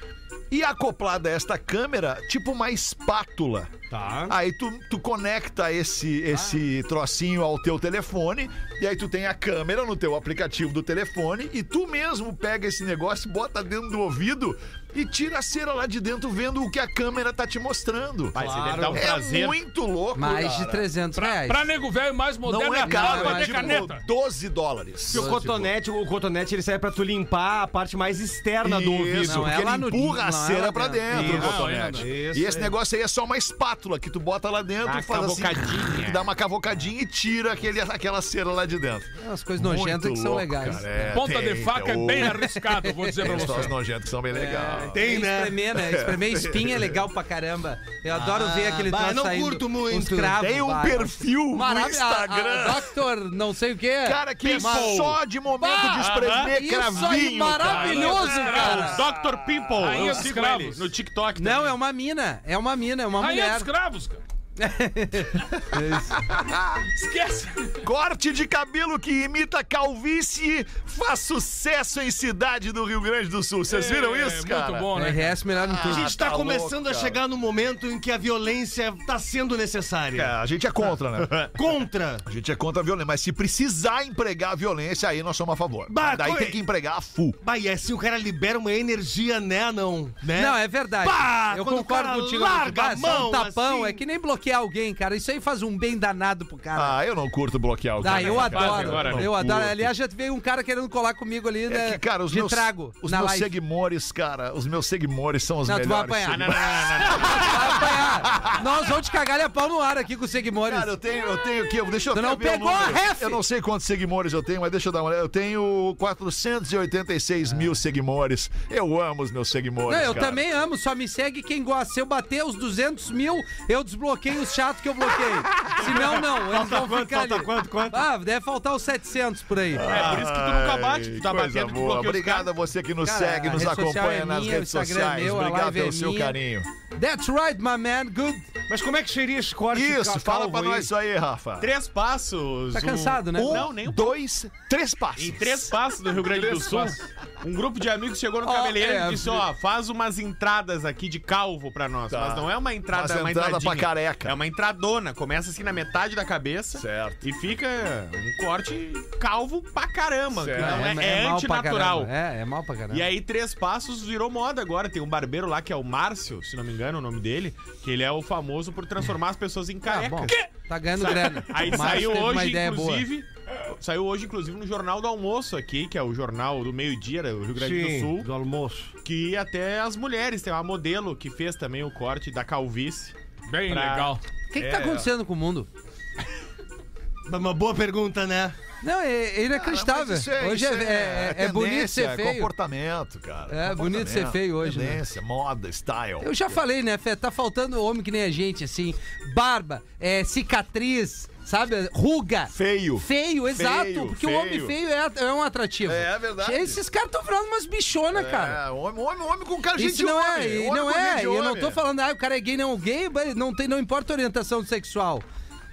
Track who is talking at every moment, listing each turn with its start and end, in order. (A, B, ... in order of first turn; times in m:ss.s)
0:00.5-0:03.7 A
0:03.9-0:04.3 B
0:04.3-0:18.4 A
0:18.3-0:19.6 C
0:18.4-0:19.0 B
0:18.9-0:20.8 A
0:20.2-0:21.7 D
0:21.2-0:24.0 E
0:22.4-0:25.4 A
0:22.8-0:23.8 D
0:25.1-0:29.5 B
0:25.1-0:25.6 D
0:28.6-0:45.1 A
0:29.2-0:32.0 D
0:31.1-0:32.7 B
0:31.2-0:32.0 E
0:34.8-0:36.3 C
0:39.2-0:41.2 D
0:41.1-0:43.8 E
0:44.3-0:59.0 D
0:44.9-0:45.6 B
0:45.7-0:47.0 A
0:48.1-0:50.4 B
0:50.4-0:53.0 A
0:54.0-0:59.7 A
0:54.4-0:55.2 C
0:56.0-0:56.5 C
0:57.6-0:59.0 E
0:58.4-1:01.7 C
0:59.8-1:00.9 E
1:01.4-1:03.7 D
1:03.2-1:04.2 E
1:04.6-1:06.2 D
1:05.9-1:06.9 A
1:06.9-1:07.8 E
1:07.8-1:14.9 A
1:13.7-1:15.4 E
1:14.9-1:16.1 D
1:15.6-1:17.2 A
1:15.8-1:20.3 B
1:20.1-1:21.5 A
1:21.5-1:22.2 B
1:22.2-1:27.4 A
1:25.9-1:26.6 B
1:27.4-1:34.0 B
1:30.3-1:37.0 D
1:36.7-1:39.9 A
1:38.0-1:43.5 D
1:38.0-1:39.3 C
1:41.7-1:48.8 A
1:45.6-1:50.9 D
1:46.2-1:47.8 C
1:50.6-2:00.4 A
1:52.1-1:53.4 D
1:59.9-2:09.9 D
2:05.6-2:08.1 B
2:09.7-2:16.7 A
2:09.8-2:12.5 C
2:13.0-2:16.4 D
2:17.0-2:18.5 D
2:18.7-2:20.9 B
2:19.7-2:21.7 A
2:21.6-2:24.2 C
2:22.7-2:23.7 D
2:23.4-2:25.7 A
2:25.2-2:42.1 C
2:26.3-2:26.9 A
2:28.4-2:29.4 D
2:32.1-2:34.4 A
2:36.7-2:37.2 A
2:40.3-2:40.9 A
2:40.6-2:43.1 D
2:42.9-2:50.4 C
2:49.9-2:53.0 D
2:51.0-2:58.3 C
2:51.1-2:51.4 E
2:57.6-2:58.9 B
2:59.0-3:03.2 C
3:03.5-3:04.2 E
3:03.7-3:04.1 C
3:04.5-3:05.7 D
3:04.6-3:05.1 A
3:07.2-3:08.5 B
3:08.8-3:12.5 D
3:09.5-3:16.3 A
3:13.5-3:15.0 D
3:16.2-3:28.6 D
3:22.5-3:24.7 A
3:25.8-3:26.8 A
3:28.1-3:31.8 A
3:29.8-3:35.2 D